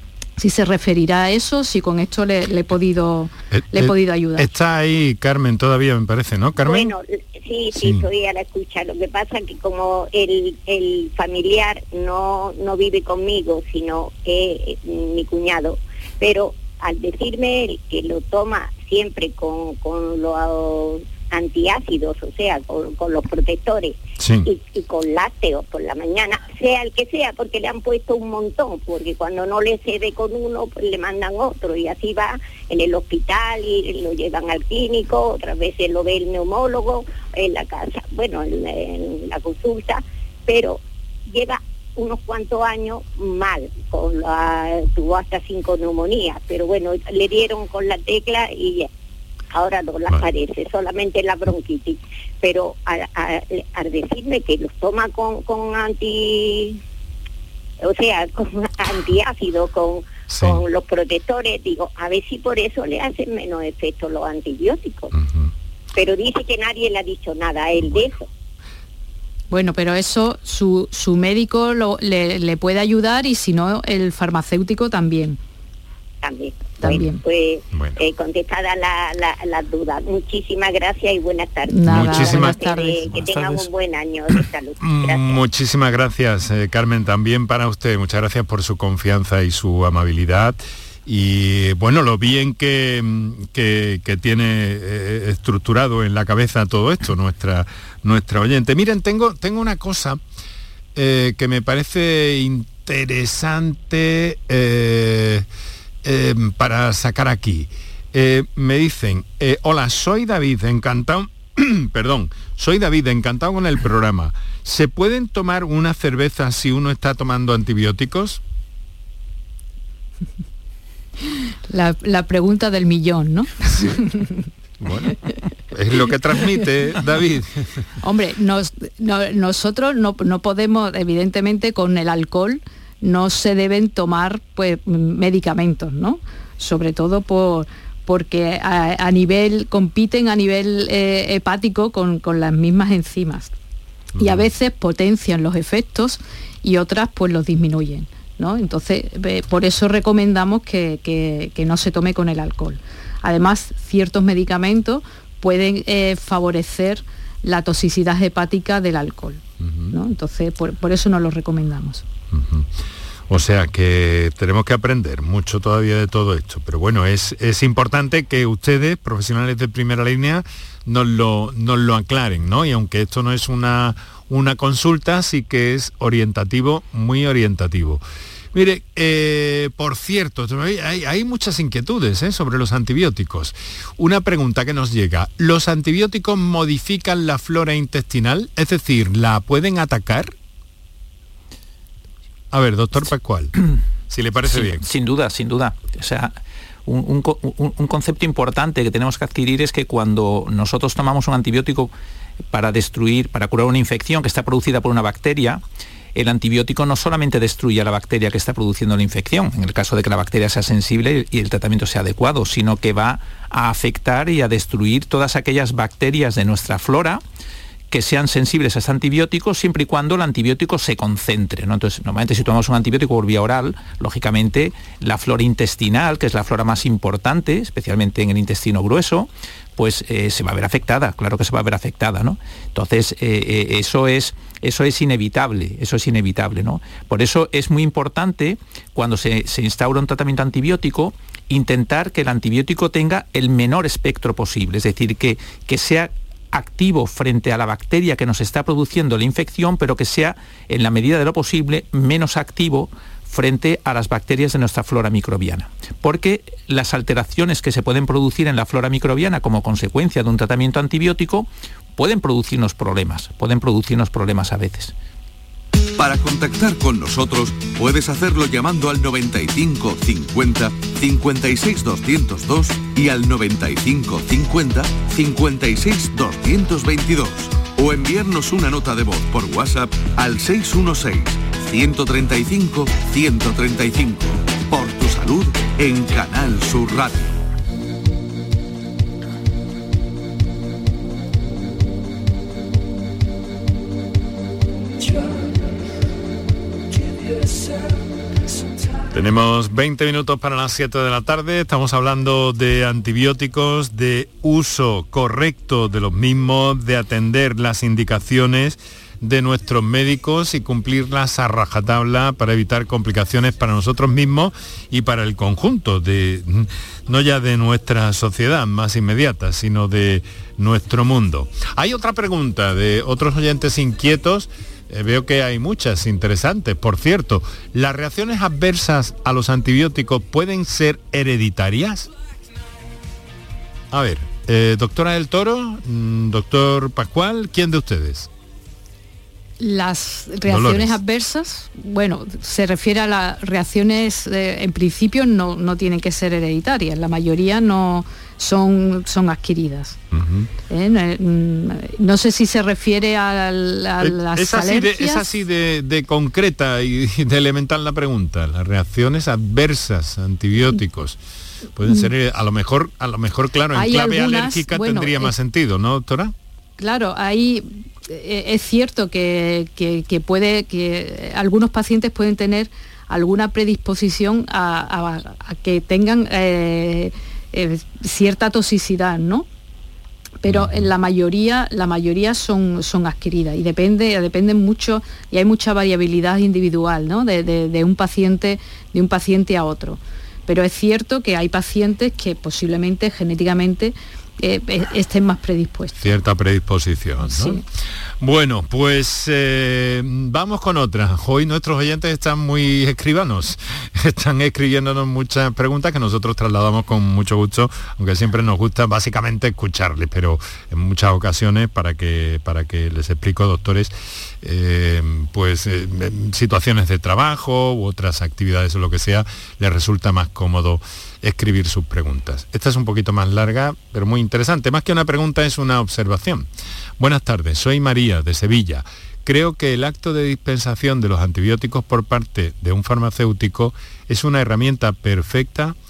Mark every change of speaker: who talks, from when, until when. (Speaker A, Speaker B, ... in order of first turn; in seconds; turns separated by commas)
Speaker A: 0.4-4.5, Speaker B: 3.5-6.9, Speaker C: 6.6-48.9, Speaker B: 7.7-8.1, Speaker B: 24.2-24.5, Speaker C: 49.5-56.8, Speaker C: 57.8-65.1, Speaker B: 60.3-60.6, Speaker B: 65.1-65.5, Speaker C: 65.9-68.3, Speaker B: 67.8-68.1, Speaker A: 69.5-75.4, Speaker C: 76.2-85.4, Speaker A: 76.8-77.2, Speaker B: 77.7-78.0, Speaker A: 81.7-83.7, Speaker B: 81.8-82.6, Speaker B: 84.8-100.2, Speaker B: 100.9-105.5, Speaker B: 106.0-118.4, Speaker A: 121.3-124.5, Speaker B: 124.8-125.2, Speaker B: 125.7-127.8, Speaker A: 128.0-143.5, Speaker B: 144.2-144.4, Speaker A: 144.2-162.0, Speaker B: 159.6-159.9, Speaker B: 162.3-162.7, Speaker B: 163.3-178.0, Speaker B: 178.5-190.3, Speaker B: 192.5-193.6, Speaker B: 194.1-194.8, Speaker D: 194.5-196.3, Speaker D: 196.8-201.9, Speaker D: 202.5-205.6, Speaker D: 206.1-217.2, Speaker D: 217.9-264.9, Speaker E: 266.0-287.4, Speaker B: 299.1-332.1, Speaker B: 333.9-338.3, Speaker A: 339.6-350.0, Speaker B: 340.4-341.0, Speaker B: 350.1-350.5, Speaker A: 350.7-355.3, Speaker B: 354.0-361.2, Speaker B: 361.8-366.3, Speaker A: 363.7-365.3, Speaker A: 366.8-379.4, Speaker A: 380.4-396.1, Speaker B: 380.4-380.9, Speaker B: 396.0-397.6, Speaker A: 397.2-397.6, Speaker B: 398.2-426.5, Speaker B: 427.0-435.8